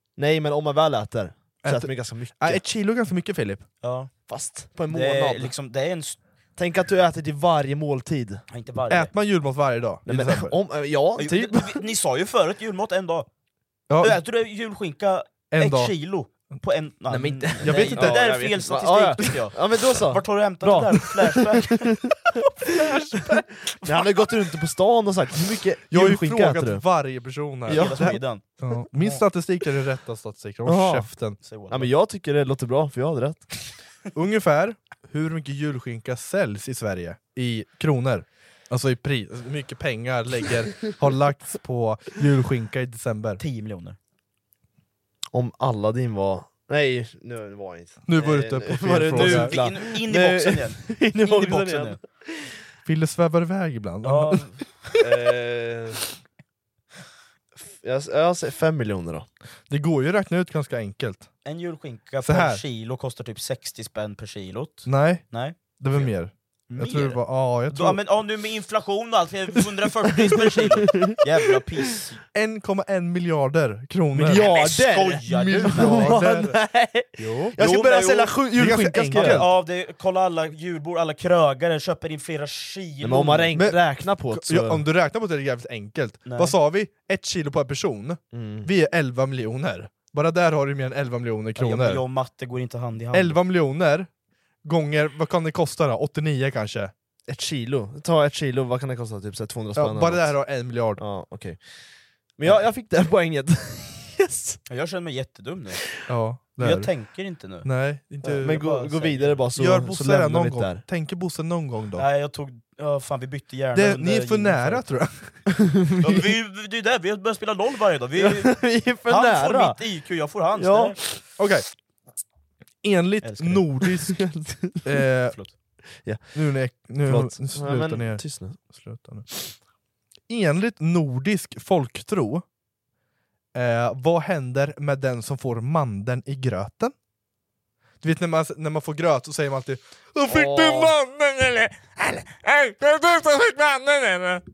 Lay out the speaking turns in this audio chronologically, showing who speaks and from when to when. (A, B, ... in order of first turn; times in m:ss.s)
0:00.2-0:02.6 A
0:01.6-0:03.6 B
0:03.8-0:04.1 C
0:04.3-0:05.5 A
0:04.9-0:06.2 C
0:06.6-0:08.4 A
0:08.5-0:09.1 C
0:08.9-0:10.6 B
0:10.1-0:11.8 A
0:11.2-0:13.3 C
0:13.9-0:14.2 B
0:14.0-0:21.9 C
0:15.5-0:15.9 B
0:17.1-0:22.4 A
0:17.6-0:18.4 B
0:22.7-0:23.6 B
0:23.8-0:26.9 A
0:25.9-0:31.4 B
0:27.7-0:28.2 A
0:27.7-0:28.4 C
0:30.6-0:31.1 A
0:31.4-0:31.9 C
0:31.7-0:33.7 A
0:34.1-0:43.4 B
0:43.4-0:44.0 C
0:45.3-0:52.5 A
0:48.1-0:49.6 B
0:49.1-0:52.0 C
0:52.8-0:54.4 B
0:54.1-0:56.1 A
0:57.6-0:59.3 A
0:59.7-1:01.3 B
1:01.4-1:06.1 C
1:02.2-1:02.6 B
1:04.9-1:05.3 B
1:05.8-1:08.0 B
1:06.7-1:12.2 C
1:10.2-1:11.2 A
1:12.3-1:14.5 B
1:14.1-1:19.5 A
1:14.3-1:16.3 C
1:15.6-1:16.6 B
1:17.2-1:17.6 B
1:17.6-1:18.4 C
1:18.6-1:19.5 B
1:19.1-1:23.6 C
1:23.0-1:24.8 A
1:23.6-1:32.0 B
1:26.3-1:26.6 C
1:28.3-1:28.7 A
1:31.6-1:33.4 C
1:33.1-1:34.1 B
1:34.6-1:36.9 B
1:37.3-1:40.4 A
1:39.8-1:41.0 B
1:41.0-1:41.6 A
1:42.4-1:44.6 A
1:44.7-1:45.8 C
1:46.1-1:46.9 B
1:46.6-1:47.7 C
1:47.6-1:48.6 B
1:48.2-1:49.4 C
1:48.3-1:50.8 A
1:49.6-1:52.1 B
1:52.0-1:54.8 C
1:53.7-1:55.3 B
1:55.6-1:56.3 A
1:56.0-2:01.0 C
1:58.2-1:59.8 A
2:00.6-2:01.2 A
2:01.4-2:01.6 B
2:02.8-2:04.2 B
2:03.2-2:03.6 C
2:04.0-2:04.8 A
2:04.8-2:05.4 B
2:06.0-2:06.3 A
2:06.3-2:09.3 B
2:07.0-2:08.6 A
2:10.3-2:12.4 B
2:13.5-2:16.9 B
2:18.0-2:24.4 B
2:20.3-2:21.0 A